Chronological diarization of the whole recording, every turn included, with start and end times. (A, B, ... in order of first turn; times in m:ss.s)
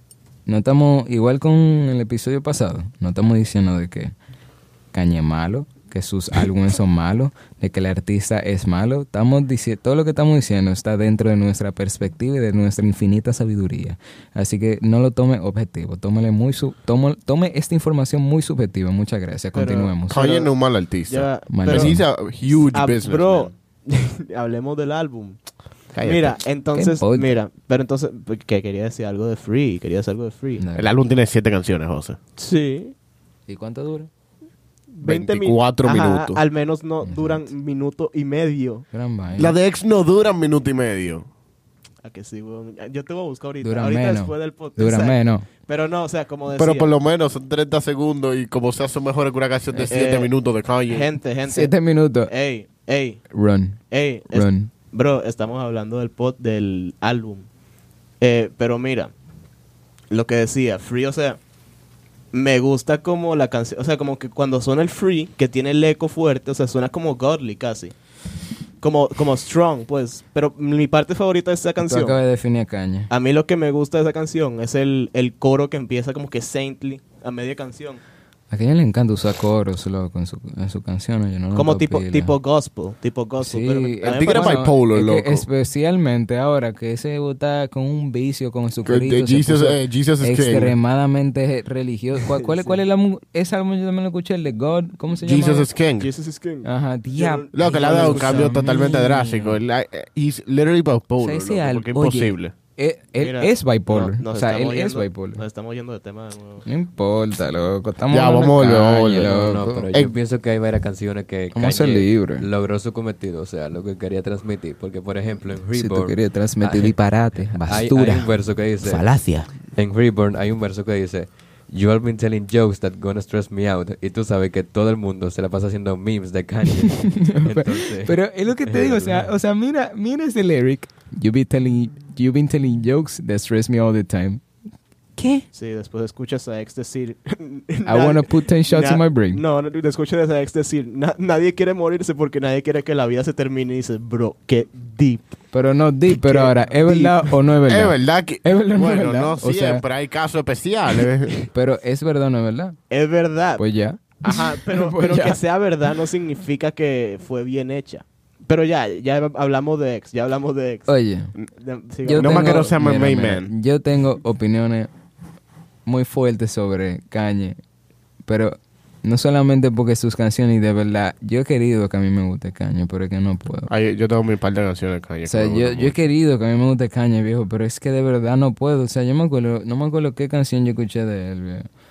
0:00.4-0:04.1 A
0:04.9-0:20.2 A
0:19.5-0:20.6 B
0:20.1-0:23.5 C
0:21.1-0:21.9 B
0:21.5-0:22.1 A
0:22.5-0:25.4 B
0:25.9-0:26.4 C
0:26.0-0:30.6 B
0:26.7-0:27.3 A
0:30.6-0:30.9 A
0:30.8-0:32.2 C
0:32.4-0:32.9 B
0:33.5-0:34.1 A
0:34.9-0:38.8 B
0:35.0-0:36.4 C
0:37.0-0:37.5 A
0:38.9-0:39.6 A
0:39.3-0:41.2 C
0:42.0-0:46.9 B
0:43.6-0:45.5 A
0:46.5-0:51.1 C
0:49.8-0:50.3 B
0:50.8-0:51.7 B
0:51.4-0:52.3 A
0:52.2-0:53.2 B
0:53.3-0:53.8 A
0:53.9-0:57.5 B
0:54.3-0:54.7 A
0:58.2-0:59.1 B
1:00.1-1:01.4 B
1:02.3-1:07.9 B
1:08.8-1:12.2 B
1:11.8-1:13.1 A
1:13.1-1:18.0 B
1:18.5-1:22.3 A
1:21.5-1:24.7 B
1:23.4-1:35.7 A
1:24.0-1:25.5 C
1:28.8-1:30.7 C
1:32.2-1:32.8 B
1:35.2-1:36.1 C
1:36.0-1:38.5 B
1:36.6-1:39.6 A
1:37.5-1:42.5 C
1:41.2-1:45.4 A
1:43.2-1:46.6 B
1:46.6-1:49.8 A
1:48.1-1:49.3 C
1:49.1-1:59.1 D
1:49.8-1:50.1 C
1:51.5-1:52.5 A
1:55.7-1:59.5 A
1:59.7-2:09.3 D
2:06.9-2:14.4 A
2:15.2-2:15.4 A
2:15.5-2:25.3 B
2:17.8-2:19.4 A
2:25.5-2:29.8 A
2:26.1-2:27.4 B
2:27.6-2:31.4 C
2:31.5-2:32.8 A
2:32.9-2:33.6 B
2:33.6-2:35.4 A
2:34.2-2:40.9 B
2:40.9-2:41.3 A
2:41.6-2:43.2 B
2:42.0-2:44.9 A
2:42.2-2:43.5 C
2:45.8-2:47.6 A
2:48.2-2:53.7 A
2:53.7-2:56.0 C
2:55.2-3:01.7 A